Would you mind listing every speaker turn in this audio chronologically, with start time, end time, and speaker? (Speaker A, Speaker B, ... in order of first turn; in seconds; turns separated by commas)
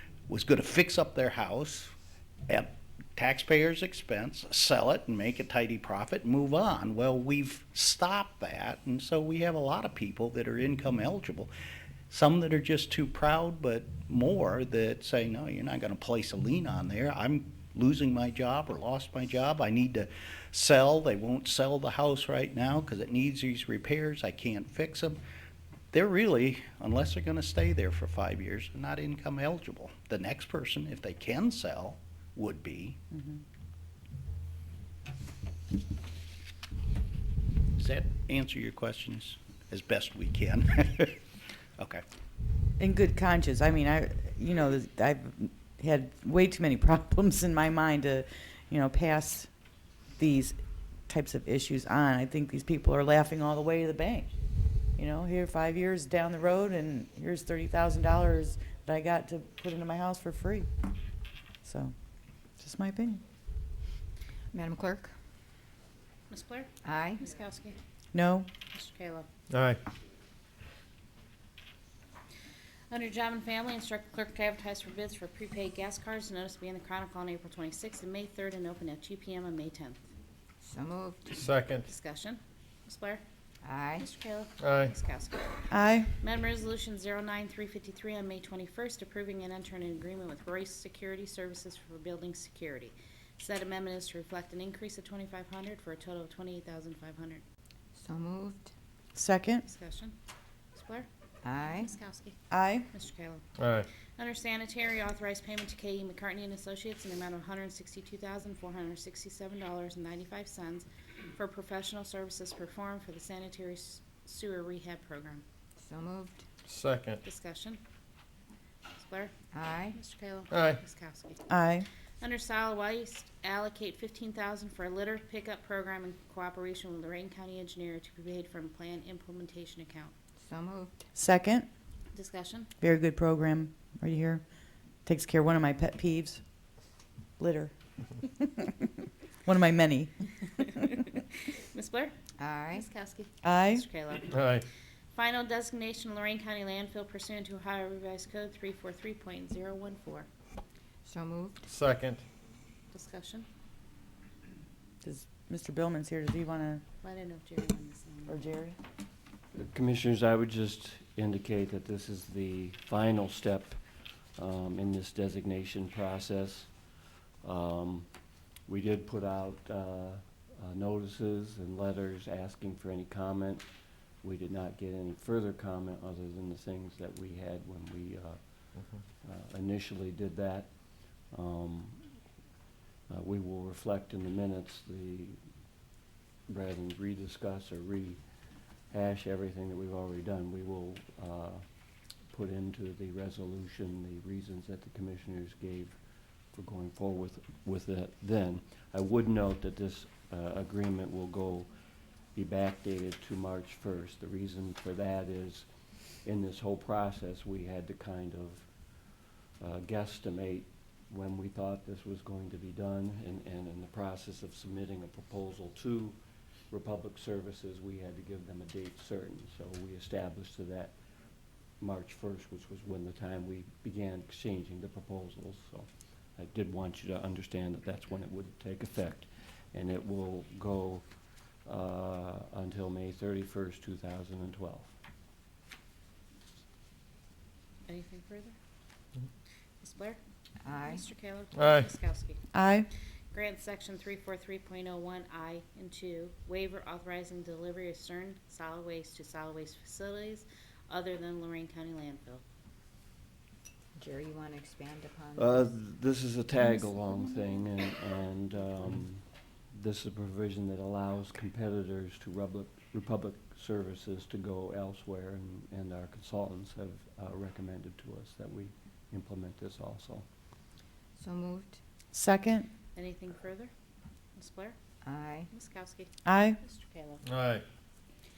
Speaker A: 0.3-1.9, Speaker A: 2.5-11.5, Speaker A: 12.1-25.2, Speaker A: 25.9-33.0, Speaker B: 33.1-33.4, Speaker A: 37.8-41.2, Speaker B: 42.8-49.5, Speaker B: 50.1-54.3, Speaker B: 55.0-60.7, Speaker B: 61.6-61.9, Speaker B: 62.6-63.2, Speaker C: 64.5-65.1, Speaker D: 66.3-67.8, Speaker C: 66.8-67.2, Speaker B: 68.1-68.5, Speaker D: 68.7-69.3, Speaker E: 69.5-69.8, Speaker D: 72.9-80.1, Speaker C: 80.6-81.4, Speaker E: 81.3-81.8, Speaker D: 81.8-83.2, Speaker C: 83.6-84.0, Speaker D: 84.0-85.6, Speaker E: 84.6-84.9, Speaker B: 85.7-86.1, Speaker D: 86.2-97.4, Speaker C: 97.9-98.7, Speaker B: 99.1-99.6, Speaker D: 99.6-100.1, Speaker D: 100.7-101.1, Speaker C: 101.4-101.9, Speaker D: 101.7-102.4, Speaker B: 102.5-102.9, Speaker D: 102.9-103.4, Speaker E: 103.6-103.8, Speaker D: 104.1-115.4, Speaker C: 115.8-116.4, Speaker E: 116.7-117.2, Speaker D: 117.2-117.8, Speaker D: 119.0-119.3, Speaker C: 119.5-120.0, Speaker D: 119.9-121.4, Speaker E: 120.5-120.8, Speaker B: 121.5-121.9, Speaker D: 122.2-130.1, Speaker C: 130.4-131.0, Speaker B: 131.1-131.7, Speaker D: 132.1-132.7, Speaker B: 132.8-134.4, Speaker B: 135.0-136.4, Speaker B: 137.4-138.9, Speaker B: 139.4-140.1, Speaker D: 140.8-142.2, Speaker C: 142.4-142.8, Speaker D: 142.7-144.4, Speaker B: 143.4-143.8, Speaker E: 144.3-144.6, Speaker D: 145.1-150.3, Speaker C: 151.0-151.6, Speaker E: 151.7-152.2, Speaker D: 152.9-153.4, Speaker B: 155.0-156.8, Speaker D: 157.0-158.4, Speaker B: 158.3-158.8, Speaker F: 159.5-163.8, Speaker F: 164.4-166.7, Speaker F: 167.4-168.1, Speaker F: 168.6-173.7, Speaker F: 174.2-182.1, Speaker F: 183.1-185.4, Speaker F: 186.5-188.2, Speaker F: 188.8-191.6, Speaker F: 192.3-201.7, Speaker F: 202.3-209.0, Speaker F: 209.6-216.2, Speaker F: 216.7-220.9, Speaker F: 221.8-231.0, Speaker F: 231.6-234.9, Speaker D: 237.9-238.5, Speaker D: 239.8-240.2, Speaker C: 240.6-241.0, Speaker D: 240.8-242.4, Speaker E: 241.5-241.8, Speaker B: 242.5-242.9, Speaker D: 243.3-252.4, Speaker C: 253.9-255.6, Speaker F: 255.3-270.3, Speaker C: 271.2-271.8, Speaker B: 272.1-272.7, Speaker D: 272.9-273.7, Speaker D: 274.3-274.8, Speaker C: 275.0-275.5, Speaker D: 275.5-277.2, Speaker B: 276.2-276.6, Speaker E: 277.2-277.6